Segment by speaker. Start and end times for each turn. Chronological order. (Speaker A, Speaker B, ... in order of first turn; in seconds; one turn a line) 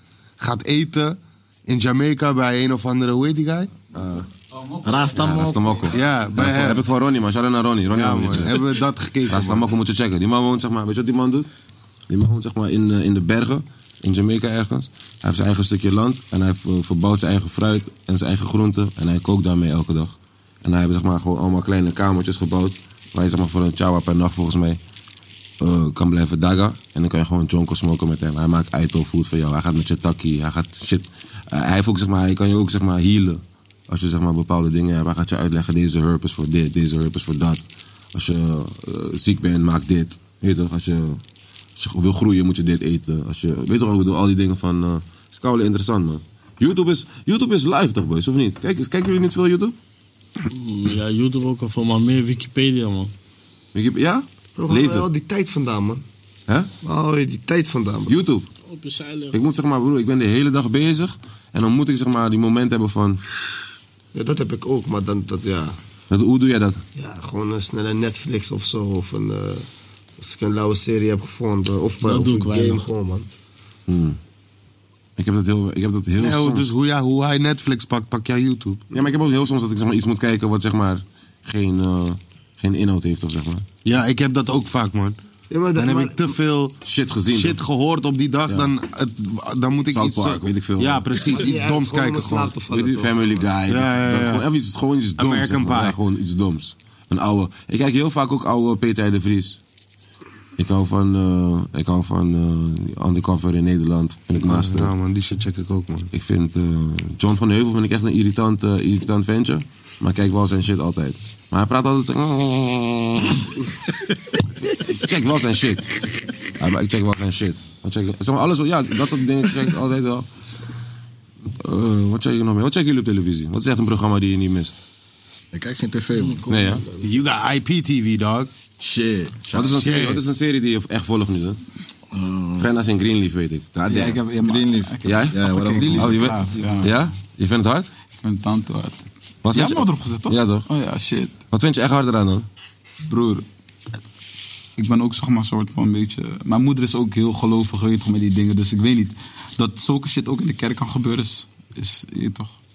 Speaker A: 0.4-3.7
Speaker B: 3.9-4.3
Speaker C: 4.8-6.5
Speaker B: 5.1-8.7
Speaker A: 5.9-6.8
Speaker A: 7.9-9.7
Speaker B: 9.3-11.5
Speaker B: 12.1-24.8
Speaker B: 25.6-37.6
Speaker B: 38.1-41.2
Speaker B: 41.8-49.8
Speaker D: 50.5-53.1
Speaker B: 53.7-55.1
Speaker E: 54.6-56.0
Speaker E: 56.8-58.2
Speaker B: 58.1-58.5
Speaker D: 58.7-59.4
Speaker B: 59.3-63.2
Speaker E: 64.1-65.8
Speaker B: 66.1-66.8
Speaker E: 67.0-69.7
Speaker E: 70.2-73.3
Speaker D: 72.0-72.8
Speaker B: 73.9-74.2
Speaker B: 75.2-76.7
Speaker A: 76.2-78.8
Speaker B: 78.9-83.7
Speaker A: 83.8-85.2
Speaker E: 85.5-86.3
Speaker A: 85.8-86.8
Speaker B: 86.8-87.6
Speaker A: 87.3-92.5
Speaker B: 89.9-91.4
Speaker E: 91.3-93.5
Speaker B: 92.7-99.6
Speaker A: 93.7-94.5
Speaker A: 95.2-96.0
Speaker B: 100.6-104.9
Speaker A: 104.4-106.1
Speaker B: 106.1-113.5
Speaker B: 114.7-115.9
Speaker B: 116.6-120.3
Speaker B: 121.6-124.8
Speaker C: 125.5-126.6
Speaker B: 126.5-126.8
Speaker A: 126.9-128.5
Speaker C: 128.8-129.8
Speaker B: 129.5-131.6
Speaker A: 129.7-130.2
Speaker C: 132.1-132.7
Speaker B: 132.6-134.2
Speaker F: 133.9-137.1
Speaker C: 134.3-136.3
Speaker B: 135.0-137.9
Speaker F: 138.2-141.3
Speaker B: 139.4-140.7
Speaker B: 141.5-142.5
Speaker F: 143.1-143.4
Speaker F: 144.8-152.5